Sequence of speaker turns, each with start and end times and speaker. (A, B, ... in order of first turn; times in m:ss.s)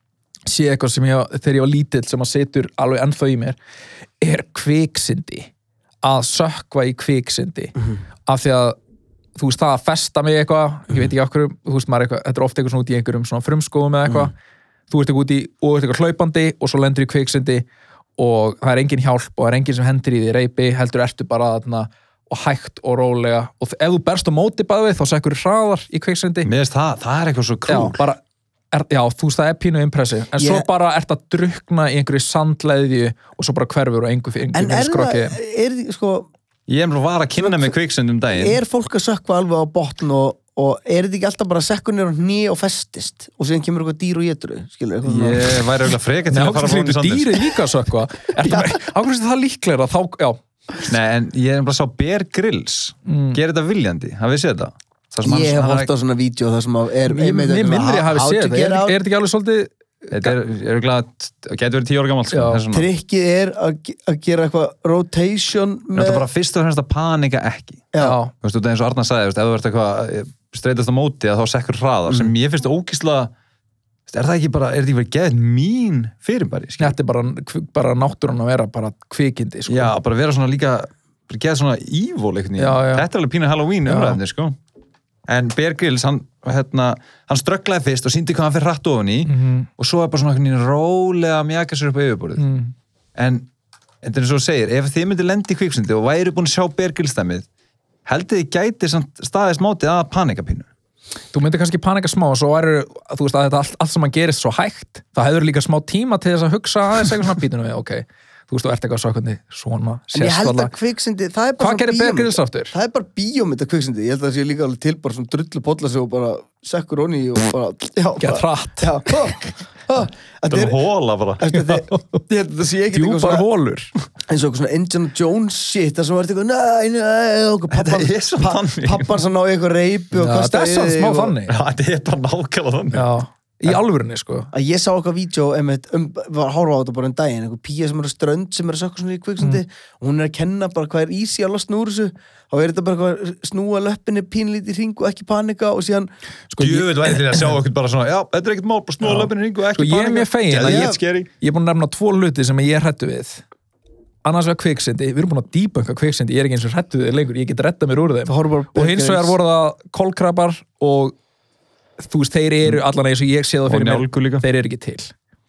0:00.5-0:03.6 A
0:04.2-0:05.5 A
0:06.0-0:08.8 A
0:09.4-0:14.3 A
0:14.9-0:17.6 A
0:18.2-0:26.5 A
0:26.4-0:28.0 B
0:27.7-0:28.2 A
0:28.7-0:35.4 A
0:30.4-0:30.7 C
0:34.5-0:36.3 C
0:36.7-0:38.6 B
0:37.4-0:37.8 C
0:38.3-0:45.7 C
0:45.0-0:47.5 B
0:46.3-0:50.4 A
0:48.4-0:48.8 C
0:50.9-0:55.9 B
0:53.1-0:53.4 A
0:55.2-0:59.0 C
0:57.1-1:00.4 A
1:00.1-1:02.9 B
1:02.3-1:02.6 A
1:02.7-1:06.3 C
1:06.0-1:13.3 B
1:07.9-1:08.2 C
1:08.0-1:08.3 A
1:14.1-1:17.0 B
1:16.8-1:19.9 A
1:19.7-1:24.6 B
1:22.6-1:23.1 A
1:23.9-1:24.2 A
1:25.3-1:32.4 B
1:29.3-1:29.7 A
1:32.4-1:32.7 A
1:33.2-1:33.5 B
1:34.0-1:37.5 B
1:38.1-1:40.7 B
1:41.3-1:50.7 A
1:50.1-2:00.8 C
1:51.6-1:52.7 A
1:58.2-1:58.9 A
2:00.5-2:01.5 B
2:01.4-2:03.5 C
2:01.5-2:02.2 A
2:02.9-2:03.9 A
2:04.3-2:11.4 C
2:07.7-2:09.2 B
2:10.2-2:11.6 A
2:11.5-2:13.1 B
2:12.9-2:14.5 A
2:14.5-2:26.1 C
2:26.5-2:27.6 A
2:26.6-2:31.3 B
2:29.0-2:33.4 A
2:30.6-2:31.0 C
2:34.2-2:41.2 A
2:38.3-2:39.4 C
2:42.0-2:45.1 A
2:43.7-2:44.4 B